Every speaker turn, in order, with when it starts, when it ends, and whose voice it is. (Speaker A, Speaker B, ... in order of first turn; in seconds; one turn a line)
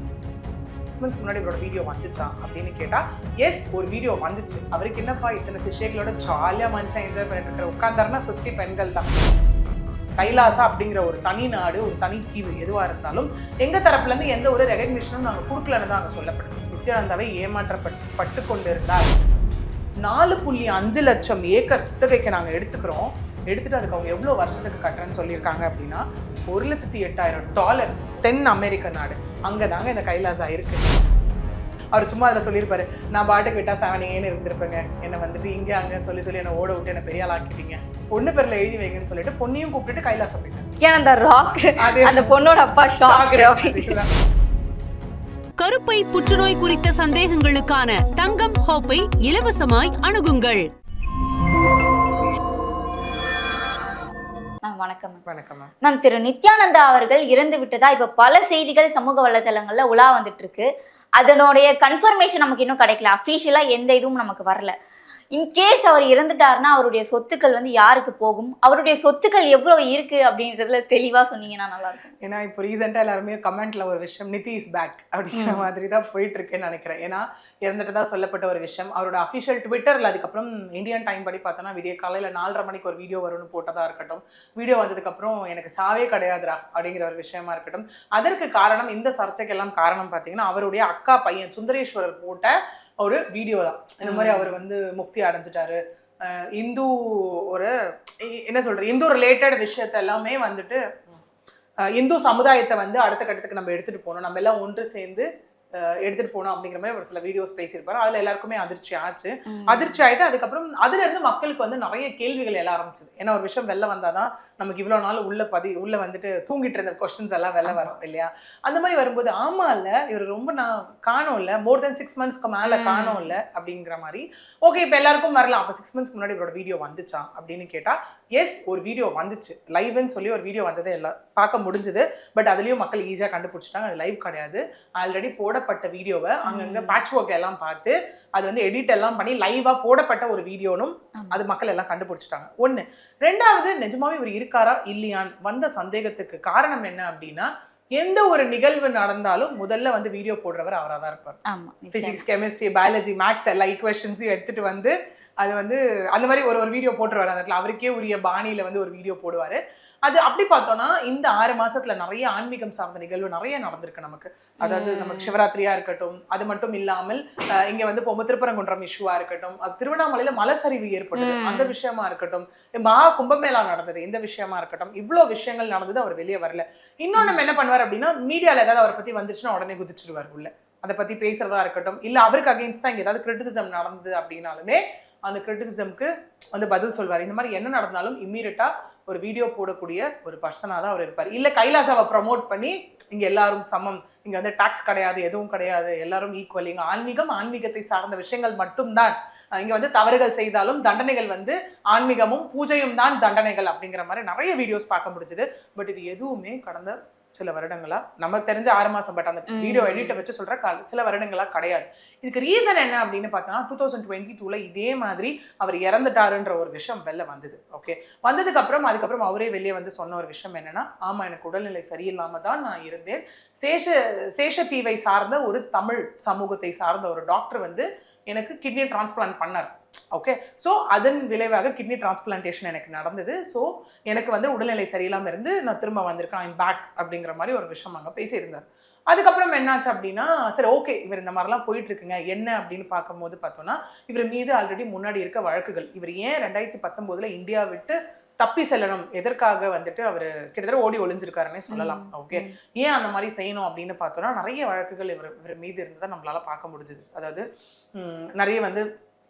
Speaker A: 0.9-9.2
Speaker A: 10.2-19.1
Speaker B: 10.2-10.7
Speaker A: 20.0-30.9
Speaker A: 31.9-40.7
Speaker B: 40.8-44.0
Speaker A: 41.8-42.3
Speaker A: 43.0-44.1
Speaker C: 45.6-50.6
Speaker B: 54.6-55.2
Speaker A: 55.3-55.7
Speaker B: 55.8-64.7
Speaker B: 65.3-72.1
Speaker A: 72.2-101.2
Speaker B: 75.3-75.7
Speaker B: 94.0-94.5
Speaker A: 101.8-151.4
Speaker B: 109.5-110.0
Speaker B: 117.7-117.9
Speaker B: 122.7-123.4
Speaker B: 136.5-137.0
Speaker B: 151.5-152.2
Speaker A: 151.9-257.4
Speaker B: 164.6-165.3
Speaker B: 171.2-171.7
Speaker B: 209.5-210.2
Speaker B: 251.7-252.6
Speaker A: 258.0-258.8